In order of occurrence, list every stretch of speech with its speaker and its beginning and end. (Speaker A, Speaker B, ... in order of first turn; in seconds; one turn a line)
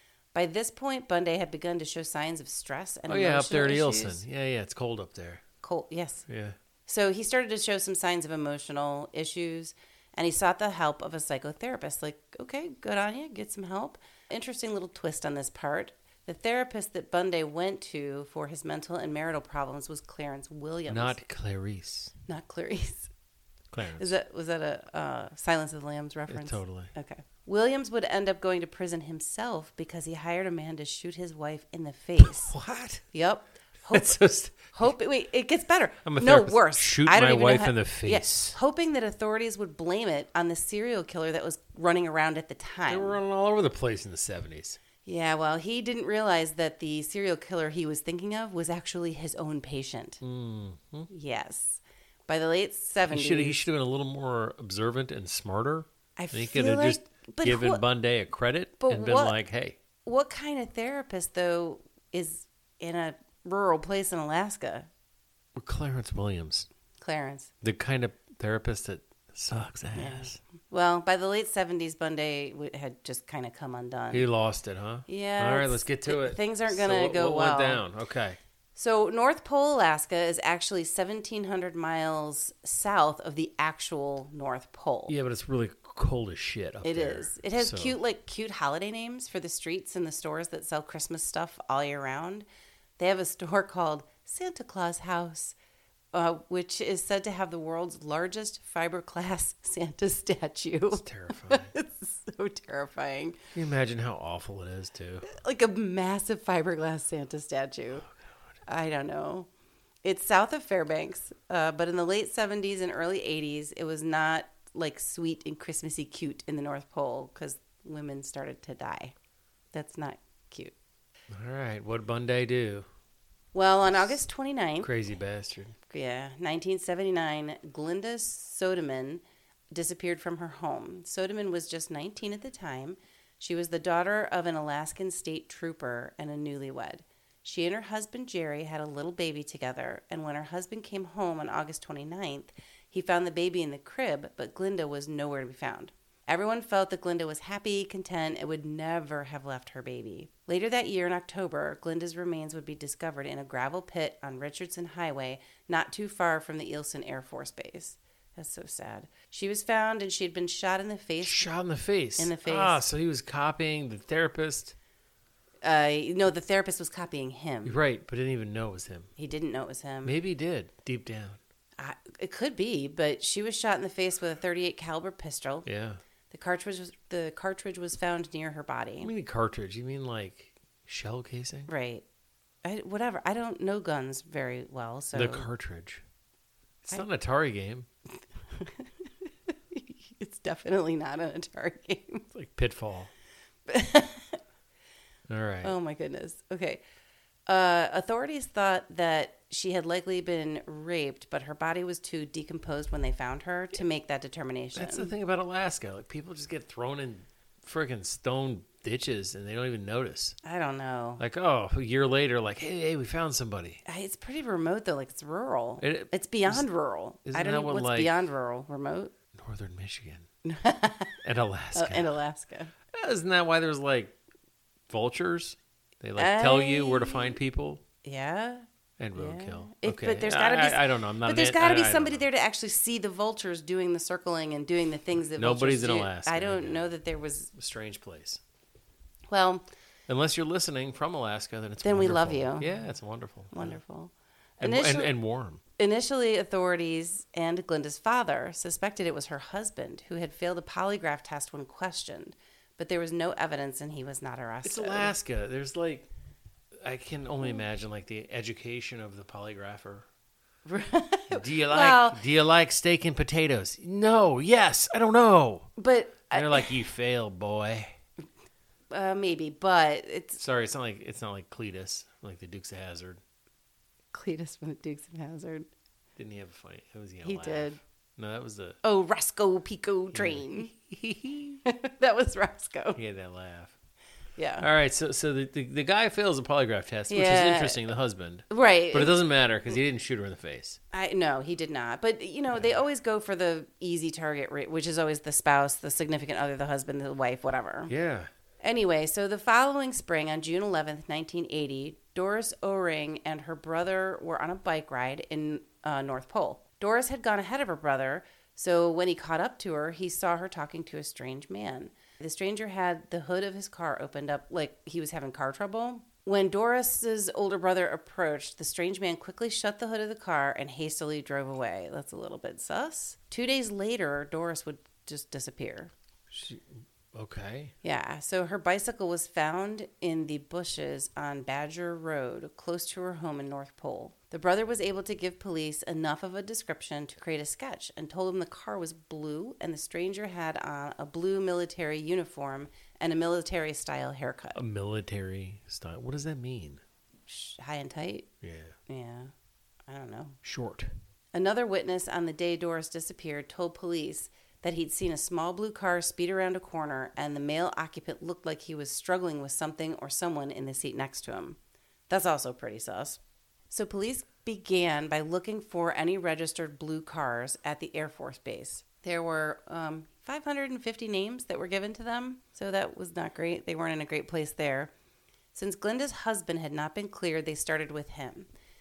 Speaker A: 0.3-4.2
Speaker B: 3.1-5.4
Speaker A: 5.6-6.3
Speaker B: 6.3-6.6
Speaker A: 6.9-21.2
Speaker B: 20.9-22.1
Speaker A: 22.3-23.1
Speaker B: 23.7-24.1
Speaker A: 24.0-32.5
Speaker B: 26.3-26.9
Speaker B: 32.2-33.0
Speaker A: 33.1-43.2
Speaker B: 33.9-34.7
Speaker B: 36.0-38.6
Speaker B: 42.9-44.8
Speaker A: 45.0-50.2
Speaker B: 50.2-51.1
Speaker A: 51.1-53.7
Speaker B: 53.0-59.8
Speaker A: 56.2-57.8
Speaker A: 58.8-59.4
Speaker A: 60.0-64.9
Speaker B: 65.5-66.7
Speaker A: 67.0-67.5
Speaker B: 67.6-70.4
Speaker A: 70.0-74.3
Speaker B: 74.1-78.4
Speaker A: 75.1-77.8
Speaker A: 78.8-85.2
Speaker B: 85.1-88.0
Speaker A: 86.8-92.5
Speaker A: 93.0-95.6
Speaker A: 96.1-103.4
Speaker B: 100.9-101.7
Speaker B: 103.5-105.3
Speaker A: 105.3-108.0
Speaker A: 108.7-109.5
Speaker A: 110.0-119.1
Speaker A: 119.7-120.7
Speaker B: 121.3-122.9
Speaker A: 123.5-124.9
Speaker B: 124.8-125.8
Speaker A: 125.9-161.5
Speaker B: 161.2-164.8
Speaker A: 162.2-162.8
Speaker A: 165.6-167.8
Speaker B: 167.7-169.1
Speaker A: 169.2-170.2
Speaker B: 170.0-171.4
Speaker A: 171.8-175.7
Speaker B: 175.7-176.0
Speaker A: 176.3-179.1
Speaker B: 179.0-181.7
Speaker A: 181.7-182.1
Speaker A: 182.6-185.5
Speaker B: 185.1-186.0
Speaker B: 186.8-187.9
Speaker A: 188.6-189.1
Speaker A: 189.7-192.2
Speaker B: 192.3-193.1
Speaker A: 193.7-194.4
Speaker B: 195.3-195.7
Speaker A: 195.6-196.8
Speaker A: 197.5-205.1
Speaker B: 204.8-210.4
Speaker A: 210.4-211.2
Speaker B: 211.2-213.8
Speaker A: 213.8-219.1
Speaker B: 215.8-216.7
Speaker B: 217.3-218.2
Speaker B: 219.3-220.3
Speaker A: 220.4-221.1
Speaker B: 221.2-222.2
Speaker A: 221.8-222.7
Speaker B: 222.9-224.2
Speaker B: 224.9-227.8
Speaker A: 226.2-227.4
Speaker A: 228.0-237.5
Speaker B: 229.0-232.3
Speaker B: 235.3-236.9
Speaker B: 237.5-238.4
Speaker A: 239.3-239.6
Speaker B: 240.1-243.8
Speaker A: 241.8-242.7
Speaker A: 243.5-245.1
Speaker B: 244.6-245.6
Speaker A: 245.8-255.1
Speaker B: 254.6-256.1
Speaker B: 256.8-260.1
Speaker A: 260.7-262.2
Speaker B: 261.3-265.7
Speaker A: 265.8-266.9
Speaker B: 266.3-268.0
Speaker A: 268.9-270.4
Speaker B: 270.4-273.2
Speaker A: 274.1-275.7
Speaker B: 276.2-278.8
Speaker A: 277.2-277.8
Speaker A: 278.8-280.7
Speaker B: 280.1-281.6
Speaker A: 281.7-283.0
Speaker B: 283.0-283.8
Speaker A: 284.4-284.7
Speaker B: 284.6-290.8
Speaker A: 287.1-287.8
Speaker A: 288.5-289.2
Speaker A: 290.9-297.9
Speaker B: 297.9-298.3
Speaker A: 298.6-325.9
Speaker B: 326.3-327.7
Speaker A: 327.8-344.6
Speaker B: 344.6-346.8
Speaker A: 347.3-348.3
Speaker B: 348.4-348.8
Speaker A: 348.9-349.3
Speaker A: 349.9-350.4
Speaker B: 350.4-350.9
Speaker A: 351.3-363.2
Speaker A: 363.7-374.9
Speaker A: 375.5-378.5